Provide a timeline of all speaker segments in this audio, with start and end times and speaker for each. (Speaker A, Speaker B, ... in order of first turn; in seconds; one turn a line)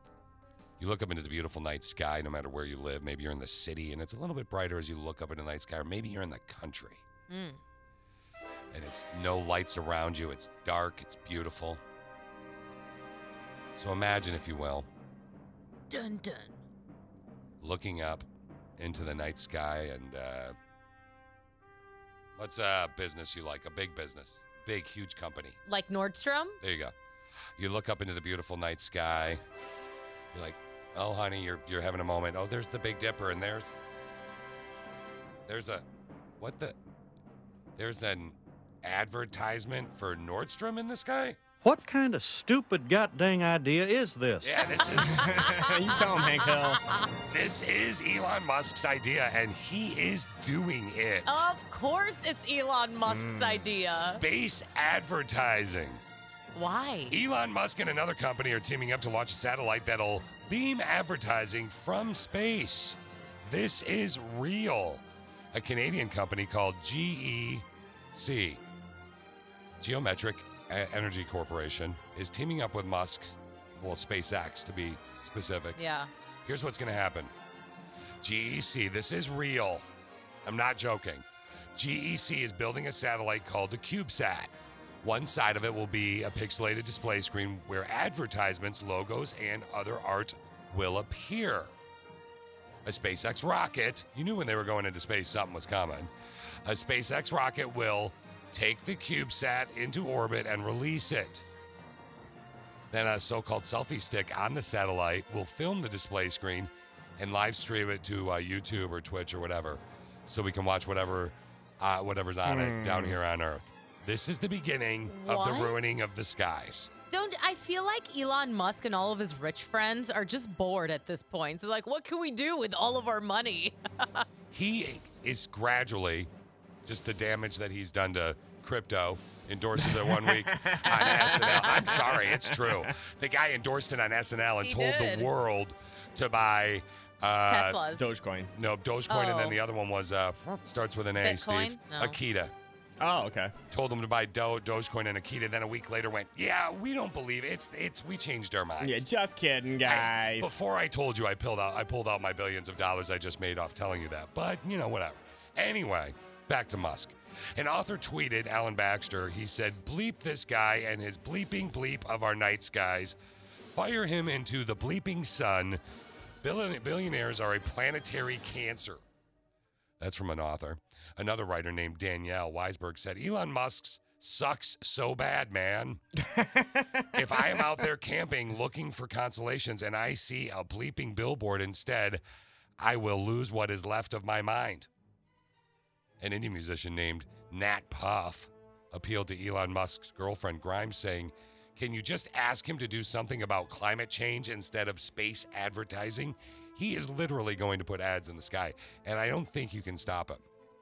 Speaker A: 0.8-7.0
Speaker B: 7.3-7.6
Speaker A: 8.7-11.8
Speaker A: 13.7-14.9
Speaker B: 15.9-16.6
Speaker A: 17.6-18.3
Speaker A: 18.8-20.6
Speaker A: 22.4-25.6
Speaker B: 25.7-26.6
Speaker A: 26.6-26.9
Speaker A: 27.6-29.4
Speaker A: 30.3-33.8
Speaker A: 35.5-35.9
Speaker A: 36.4-36.8
Speaker A: 37.8-41.4
Speaker C: 41.6-44.6
Speaker A: 44.4-45.4
Speaker D: 44.9-46.8
Speaker B: 45.0-45.7
Speaker A: 47.3-51.5
Speaker B: 51.3-54.2
Speaker A: 53.9-56.0
Speaker B: 56.5-57.2
Speaker A: 57.1-68.6
Speaker A: 69.8-75.8
Speaker B: 75.8-76.1
Speaker A: 76.5-77.3
Speaker A: 78.2-79.8
Speaker A: 80.5-84.5
Speaker A: 85.0-91.7
Speaker A: 92.8-96.1
Speaker A: 96.7-101.5
Speaker A: 102.9-116.9
Speaker D: 112.5-113.2
Speaker B: 115.1-115.8
Speaker B: 117.1-124.2
Speaker A: 124.5-126.3
Speaker A: 126.8-137.8
Speaker D: 129.8-132.9
Speaker B: 131.0-131.9
Speaker B: 134.6-135.3
Speaker B: 137.5-138.1
Speaker D: 137.9-138.5
Speaker A: 138.6-142.5
Speaker B: 139.1-139.6
Speaker B: 141.2-142.2
Speaker D: 143.0-143.5
Speaker A: 143.7-149.1
Speaker D: 148.8-150.6
Speaker A: 149.8-163.2
Speaker A: 163.7-165.8
Speaker A: 166.4-169.0
Speaker A: 170.0-176.0
Speaker D: 176.3-177.1
Speaker A: 177.1-182.2
Speaker A: 182.8-184.9
Speaker A: 186.2-200.4